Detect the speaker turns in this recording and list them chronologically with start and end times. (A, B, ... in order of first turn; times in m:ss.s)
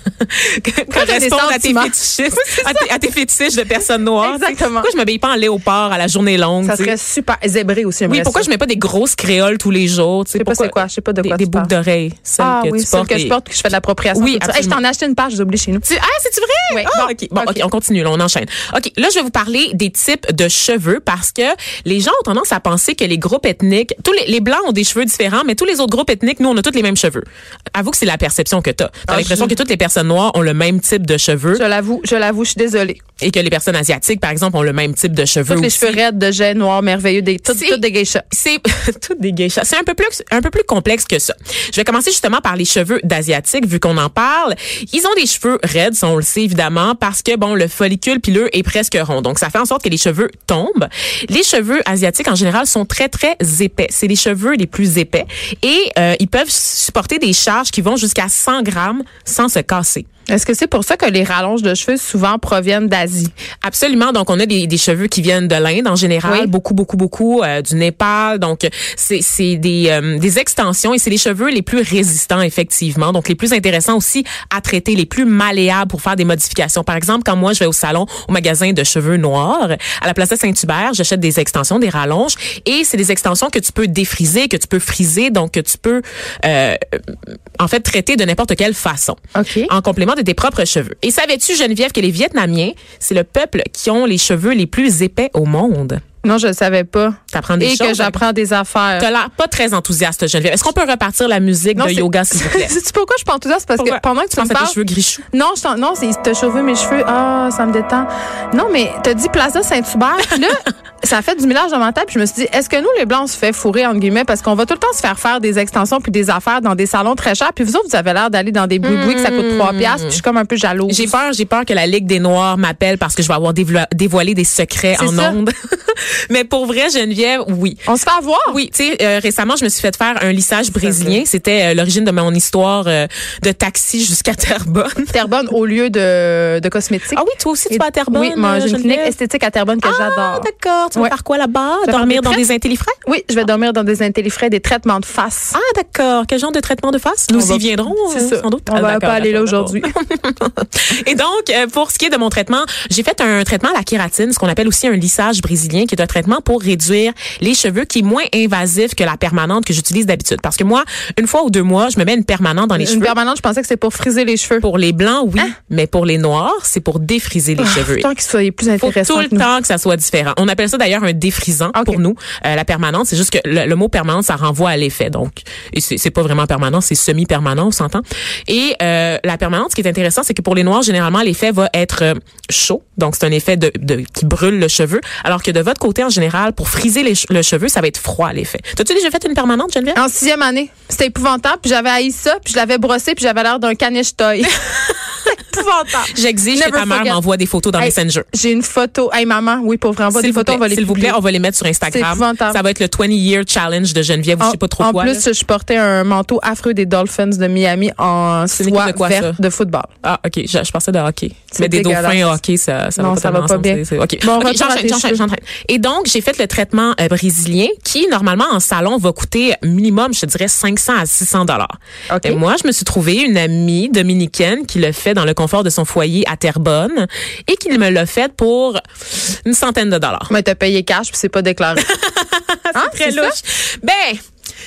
0:00.2-0:07.0 A
0:00.9-0:02.9 B
0:04.2-0:04.9 B
0:06.6-0:08.5 B
0:08.1-0:13.4 A
0:10.4-0:11.7 B
0:12.4-0:15.9 B
0:14.1-0:14.8 A
0:15.8-0:31.6 A
0:16.7-0:17.6 B
0:29.1-0:29.6 B
0:31.5-0:33.0 B
0:33.2-0:36.0 A
0:35.5-0:38.2 B
0:37.5-1:00.1 A
1:00.3-1:03.3 B
1:03.6-1:36.0 A
1:06.2-1:06.5 B
1:29.4-1:29.7 B
1:36.2-1:39.1 B
1:37.3-1:38.2 A
1:39.0-1:42.8 A
1:41.8-1:44.8 B
1:43.8-1:45.2 A
1:45.3-2:01.1 B
1:58.8-2:00.2 A
2:00.9-2:07.8 A
2:05.0-2:05.4 B
2:07.9-2:08.6 B
2:08.5-2:15.1 A
2:10.8-2:11.2 B
2:15.1-2:21.2 B
2:17.1-2:19.2 A
2:19.8-2:23.0 A
2:21.8-2:22.4 B
2:23.0-2:25.6 B
2:25.5-2:43.2 A
2:27.3-2:29.9 B
2:42.8-2:44.7 B
2:44.6-2:48.1 A
2:47.6-2:49.5 B
2:48.8-3:10.0 A
2:51.7-2:52.0 B
3:09.9-3:14.6 B
3:14.7-3:18.3 A
3:15.2-3:17.2 B
3:17.8-3:21.2 B
3:20.2-3:25.3 A
3:21.9-3:22.6 B
3:24.4-3:29.9 B
3:28.5-3:29.4 A
3:30.0-3:41.7 A
3:31.5-3:32.4 B
3:33.0-3:35.2 B
3:42.1-3:42.4 B
3:42.2-3:50.3 A
3:50.3-3:51.9 B
3:51.8-3:54.2 A
3:52.7-3:53.4 B